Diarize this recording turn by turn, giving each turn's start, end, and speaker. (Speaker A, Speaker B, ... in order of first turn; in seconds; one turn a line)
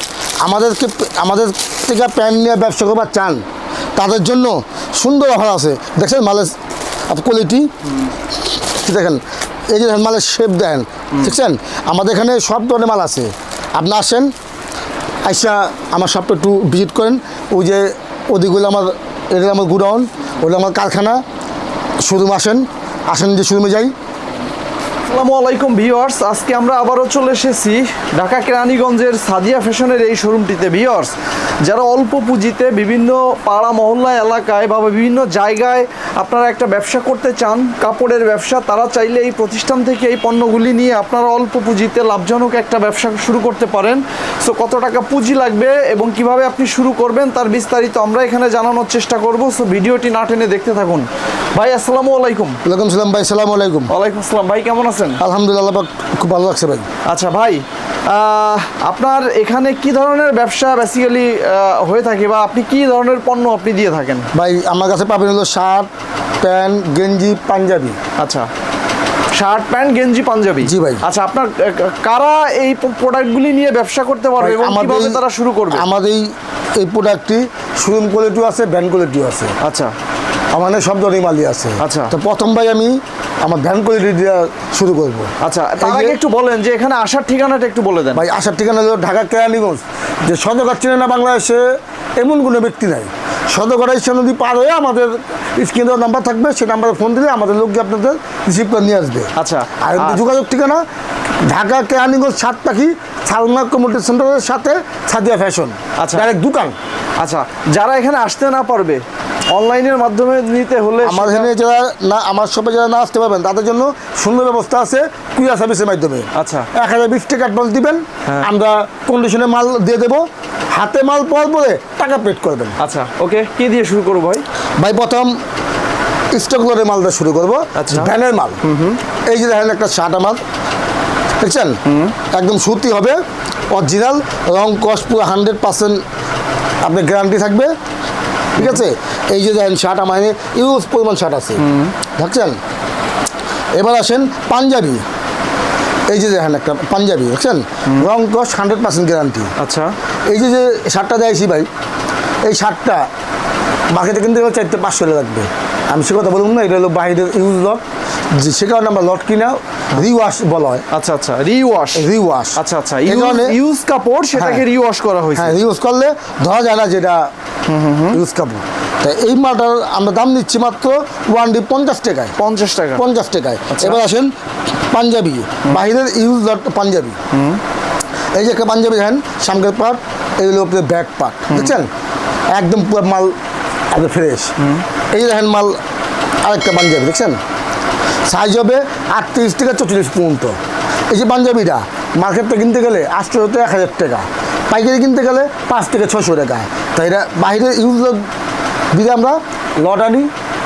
Speaker A: 0.4-3.4
Speaker A: 4.0-6.6
Speaker A: 7.1-7.7
Speaker A: 8.5-14.3
Speaker A: 15.2-21.2
Speaker A: 22.0-23.9
Speaker B: 25.1-52.6
Speaker A: 52.6-53.9
Speaker B: 53.9-55.2
Speaker A: 55.2-56.9
Speaker B: 57.0-64.3
Speaker A: 64.3-65.9
Speaker A: 66.4-68.0
Speaker B: 68.2-68.5
Speaker B: 69.3-75.9
Speaker A: 70.6-71.0
Speaker A: 74.4-79.6
Speaker B: 79.6-80.0
Speaker A: 80.5-86.2
Speaker B: 81.8-82.1
Speaker B: 85.4-88.2
Speaker A: 88.1-91.7
Speaker A: 92.2-100.8
Speaker B: 99.4-100.3
Speaker A: 101.4-106.8
Speaker B: 106.0-106.3
Speaker B: 107.2-111.5
Speaker A: 111.0-122.8
Speaker B: 116.3-116.7
Speaker B: 122.8-124.5
Speaker A: 124.8-125.4
Speaker A: 126.3-128.6
Speaker B: 127.8-128.1
Speaker B: 128.6-129.0
Speaker A: 129.3-130.4
Speaker A: 131.4-131.8
Speaker B: 131.8-132.1
Speaker A: 132.3-133.2
Speaker A: 133.7-136.0
Speaker A: 136.8-137.7
Speaker A: 138.6-141.6
Speaker B: 141.6-141.9
Speaker A: 142.2-142.6
Speaker A: 143.8-145.0
Speaker A: 146.1-149.5
Speaker B: 149.6-150.0
Speaker A: 150.3-151.7
Speaker A: 152.4-153.1
Speaker A: 153.9-160.8
Speaker B: 160.9-165.6
Speaker A: 161.9-163.6
Speaker A: 164.4-164.6
Speaker A: 165.3-167.3
Speaker B: 167.7-168.2
Speaker A: 168.1-172.3
Speaker B: 172.4-173.0
Speaker A: 173.0-174.3
Speaker B: 173.7-174.0
Speaker A: 174.9-177.2
Speaker B: 177.3-177.6
Speaker A: 178.3-181.9
Speaker B: 181.5-181.8
Speaker A: 182.5-183.3
Speaker A: 183.9-184.5
Speaker A: 185.1-185.8
Speaker A: 186.4-187.4
Speaker A: 188.3-190.6
Speaker A: 191.1-198.3
Speaker A: 198.9-200.3